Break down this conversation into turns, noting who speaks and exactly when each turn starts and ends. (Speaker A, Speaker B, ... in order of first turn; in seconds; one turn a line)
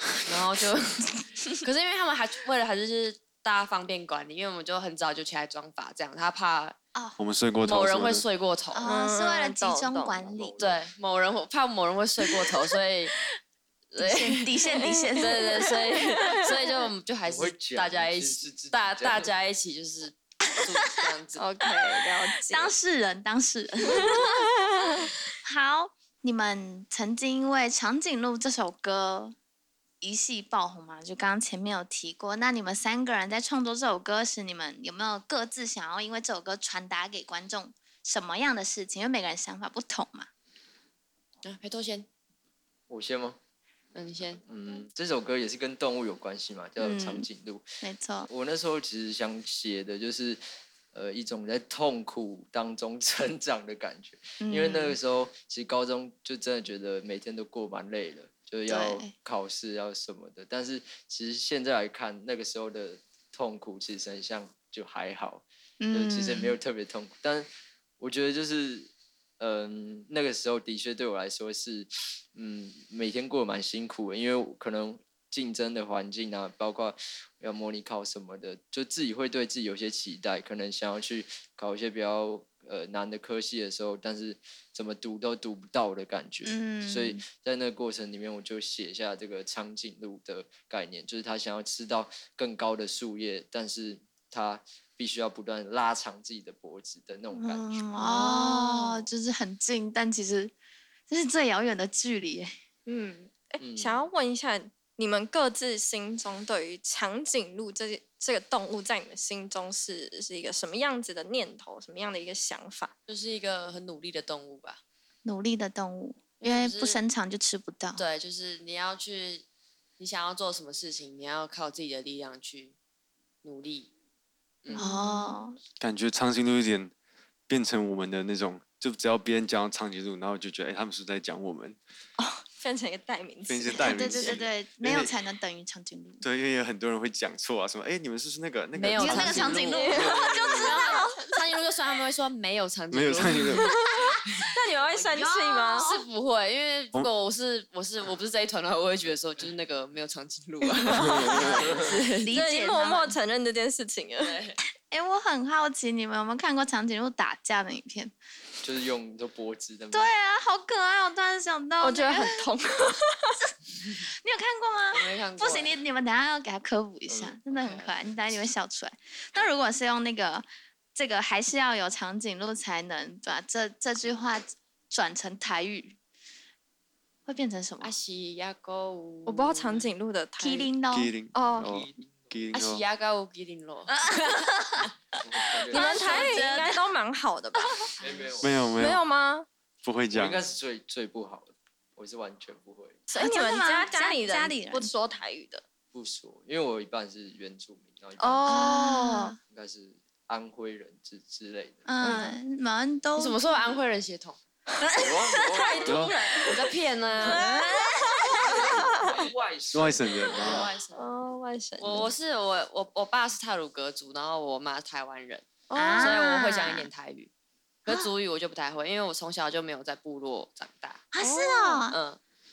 Speaker A: 0.3-6.8
Speaker B: 7.2-8.2
Speaker A: 7.6-8.9
Speaker C: 8.8-10.6
Speaker D: 8.8-10.3
Speaker E: 10.2-10.8
Speaker A: 10.6-13.1
Speaker A: 13.9-14.5
Speaker C: 14.0-15.6
Speaker D: 14.7-16.5
Speaker A: 15.2-21.4
Speaker E: 17.2-19.3
Speaker D: 21.4-22.7
Speaker C: 22.5-24.3
Speaker D: 23.9-25.1
Speaker C: 25.4-29.4
Speaker C: 30.0-40.3
Speaker A: 41.4-42.1
Speaker E: 42.9-43.4
Speaker A: 43.9-44.4
Speaker E: 44.5-47.6
Speaker C: 46.8-47.3
Speaker C: 47.8-48.3
Speaker E: 48.3-50.4
Speaker E: 50.9-67.5
Speaker C: 54.4-55.0
Speaker C: 58.7-59.1
Speaker C: 65.8-66.5
Speaker E: 68.0-97.8
Speaker C: 86.4-87.2
Speaker C: 97.3-100.5
Speaker D: 98.1-99.0
Speaker C: 101.1-102.5
Speaker D: 102.9-112.9
Speaker E: 103.6-104.0
Speaker A: 113.1-114.8
Speaker C: 115.2-118.0
Speaker A: 116.4-117.0
Speaker A: 118.0-119.4
Speaker A: 120.0-122.8
Speaker A: 123.4-123.9
Speaker A: 124.6-125.3
Speaker D: 124.7-125.2
Speaker C: 124.8-125.6
Speaker B: 125.8-126.9
Speaker B: 127.5-131.8
Speaker D: 132.4-134.3
Speaker B: 133.5-135.1
Speaker C: 133.7-136.2
Speaker B: 136.2-140.7
Speaker A: 138.8-140.0
Speaker C: 139.0-141.3
Speaker D: 139.7-141.2
Speaker A: 140.6-143.7
Speaker B: 142.9-143.8
Speaker D: 143.6-143.9
Speaker D: 144.5-145.9
Speaker C: 145.1-145.9
Speaker A: 145.7-152.3
Speaker D: 150.9-151.4
Speaker C: 151.3-153.2
Speaker D: 152.3-154.4
Speaker A: 154.2-154.6
Speaker C: 154.9-158.1
Speaker E: 158.6-160.1
Speaker C: 159.9-162.4
Speaker D: 161.8-163.4
Speaker C: 163.8-176.0
Speaker A: 164.9-165.8
Speaker E: 167.1-167.4
Speaker A: 167.5-167.9
Speaker C: 177.3-177.9
Speaker A: 177.8-179.9
Speaker D: 179.3-180.7
Speaker C: 180.4-181.1
Speaker B: 180.9-182.8
Speaker D: 181.3-181.7
Speaker E: 181.6-182.4
Speaker A: 182.5-183.9
Speaker C: 184.4-184.9
Speaker E: 185.2-186.4
Speaker C: 185.7-186.9
Speaker D: 185.7-187.8
Speaker E: 188.0-188.7
Speaker B: 188.4-189.0
Speaker D: 188.7-189.5
Speaker B: 189.8-190.4
Speaker E: 190.1-193.0
Speaker D: 193.1-195.6
Speaker C: 193.2-194.9
Speaker E: 195.9-198.7
Speaker D: 198.2-199.4
Speaker C: 198.5-199.4
Speaker E: 199.5-201.9
Speaker C: 201.8-203.7
Speaker D: 202.0-202.4
Speaker A: 203.2-204.4
Speaker D: 204.8-206.5
Speaker E: 205.0-206.2
Speaker B: 205.9-206.1
Speaker A: 205.9-207.5
Speaker D: 207.2-209.2
Speaker C: 207.4-208.4
Speaker E: 208.3-210.6
Speaker B: 209.7-210.7
Speaker A: 210.3-211.1
Speaker D: 210.9-212.1
Speaker A: 211.8-217.3
Speaker D: 215.7-216.3
Speaker C: 215.8-216.9
Speaker A: 217.8-221.1
Speaker C: 221.1-222.0
Speaker D: 221.2-221.8
Speaker A: 221.9-222.2